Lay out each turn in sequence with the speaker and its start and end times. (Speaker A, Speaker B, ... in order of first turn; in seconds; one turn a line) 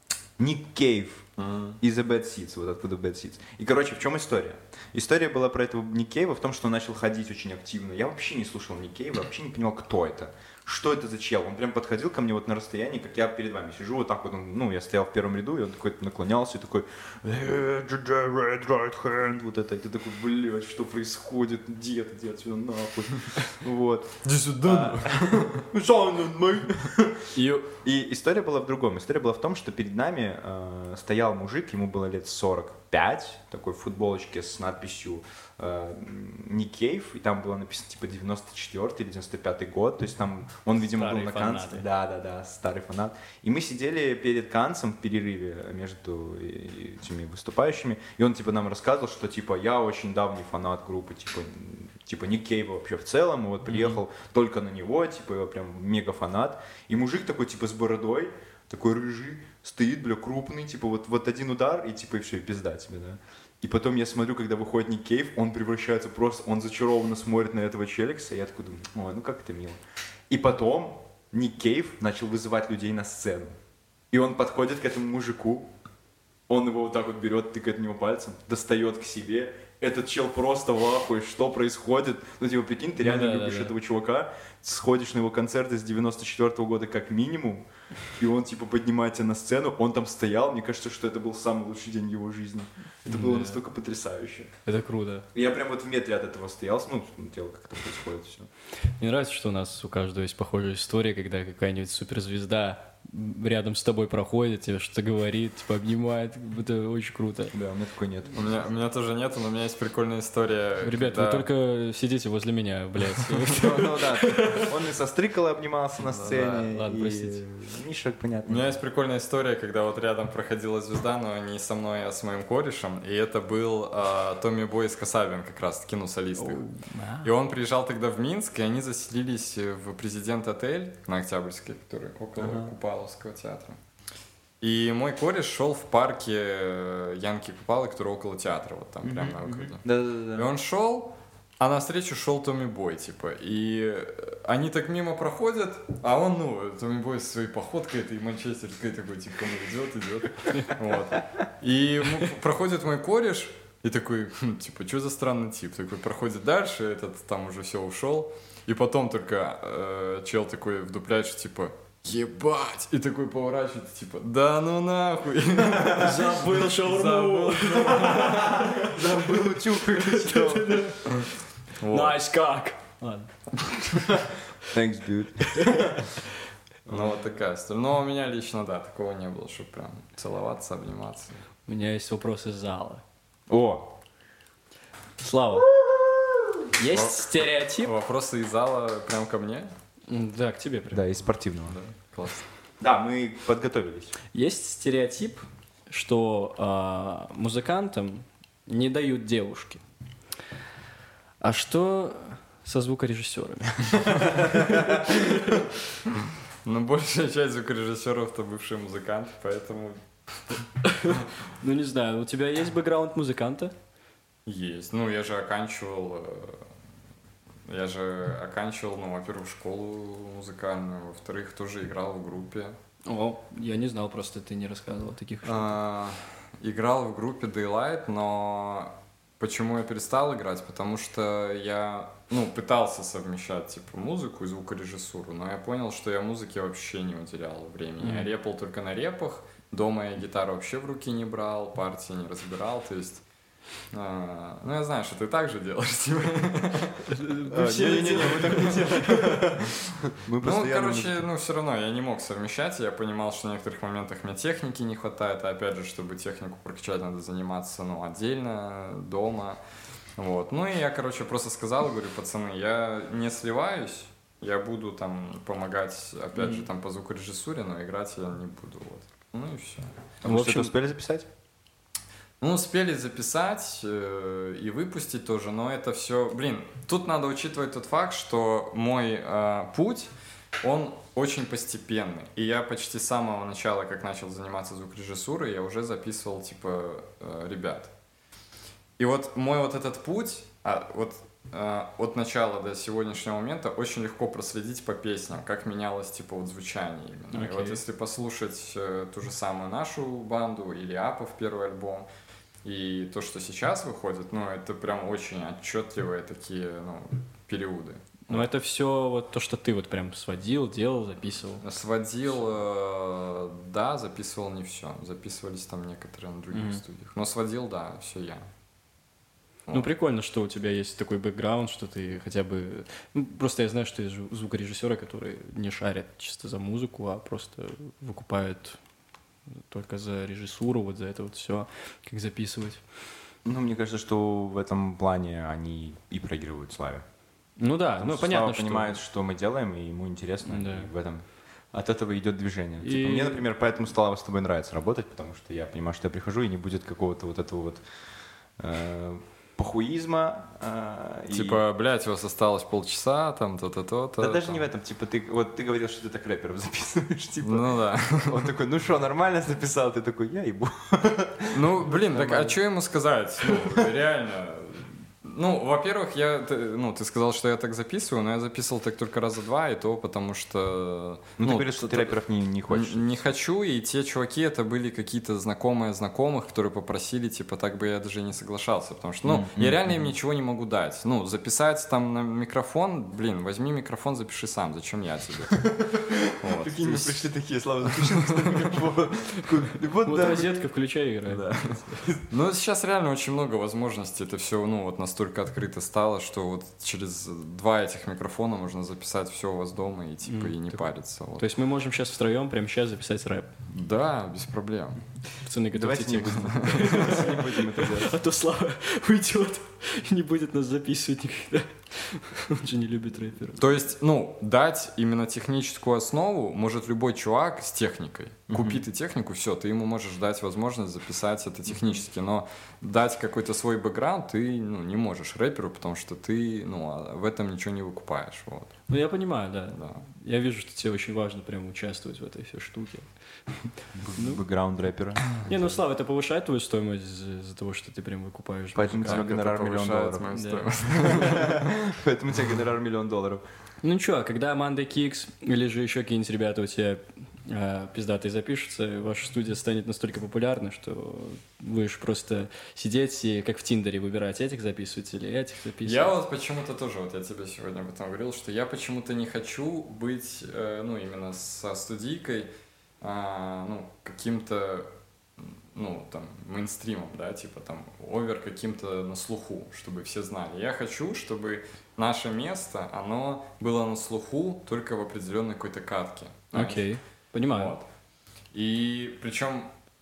Speaker A: 0.4-1.3
Speaker B: 1.4-1.8
Speaker A: 1.8-73.5
Speaker B: 24.2-25.6
Speaker C: 27.3-27.6
Speaker C: 40.8-41.8
Speaker C: 53.7-54.0
Speaker A: 74.1-75.7
Speaker A: 76.5-94.5
Speaker C: 83.0-83.7
Speaker C: 93.1-93.6
Speaker C: 94.6-95.3
Speaker A: 95.3-98.5
Speaker C: 99.0-107.5
Speaker A: 107.5-108.6
Speaker B: 108.3-111.5
Speaker C: 110.8-114.7
Speaker A: 113.5-118.8
Speaker B: 116.0-116.7
Speaker C: 116.6-117.4
Speaker B: 118.5-126.7
Speaker C: 126.4-127.3
Speaker B: 127.2-133.8
Speaker A: 132.4-132.7
Speaker B: 134.6-168.7
Speaker A: 139.0-140.5
Speaker C: 165.9-171.3
Speaker A: 168.8-170.8
Speaker B: 171.8-172.2
Speaker C: 171.9-173.3
Speaker A: 174.7-176.0
Speaker C: 175.6-176.1
Speaker A: 176.9-177.1
Speaker B: 176.9-181.3
Speaker C: 181.7-183.0
Speaker A: 183.5-183.9
Speaker C: 185.2-185.7
Speaker A: 185.7-186.7
Speaker C: 186.7-187.9
Speaker B: 186.9-189.7
Speaker C: 190.1-191.0
Speaker A: 190.9-191.8
Speaker B: 191.7-192.4
Speaker A: 192.8-194.2
Speaker C: 194.3-199.8
Speaker C: 201.4-205.6
Speaker B: 206.6-210.0
Speaker C: 210.9-213.7
Speaker B: 214.4-216.7
Speaker B: 217.7-222.7
Speaker C: 223.1-225.8
Speaker B: 225.4-243.2
Speaker C: 238.0-238.3
Speaker B: 243.9-247.0
Speaker C: 247.1-249.4
Speaker A: 247.5-251.3
Speaker B: 250.4-259.6
Speaker B: 260.2-270.0
Speaker C: 266.4-266.7
Speaker A: 270.2-271.3
Speaker C: 270.2-270.7
Speaker B: 272.4-280.1
Speaker B: 280.6-287.9
Speaker B: 289.0-302.1
Speaker C: 297.3-297.8
Speaker B: 302.6-308.5
Speaker C: 308.3-311.6
Speaker B: 311.6-318.5
Speaker C: 316.5-316.8
Speaker C: 319.7-328.8
Speaker C: 329.6-332.8
Speaker A: 333.4-337.0
Speaker C: 337.6-339.0
Speaker A: 338.0-347.8
Speaker C: 340.4-340.9
Speaker C: 342.8-343.4
Speaker A: 348.6-351.6
Speaker B: 351.3-354.7
Speaker A: 354.2-362.6
Speaker B: 357.4-358.5
Speaker B: 361.5-372.1
Speaker A: 363.4-363.9
Speaker A: 371.4-373.2
Speaker B: 372.7-385.7
Speaker A: 379.2-380.1
Speaker A: 385.6-390.6
Speaker B: 386.4-387.2
Speaker B: 387.9-388.8
Speaker C: 390.0-392.1
Speaker B: 391.3-401.5
Speaker C: 400.2-400.8
Speaker C: 401.4-403.5
Speaker B: 403.7-405.0
Speaker C: 405.4-413.6
Speaker A: 405.7-408.2
Speaker B: 406.2-407.3
Speaker B: 413.6-428.8
Speaker A: 418.5-418.8
Speaker C: 428.9-433.1
Speaker B: 429.7-430.0
Speaker A: 433.9-435.8
Speaker C: 434.1-434.4
Speaker C: 435.4-439.3
Speaker A: 438.7-440.3
Speaker B: 439.0-441.7
Speaker C: 440.3-441.5
Speaker A: 441.0-443.4
Speaker C: 443.8-456.1
Speaker B: 455.8-476.9
Speaker C: 476.5-477.7
Speaker B: 477.5-477.9
Speaker B: 478.5-479.7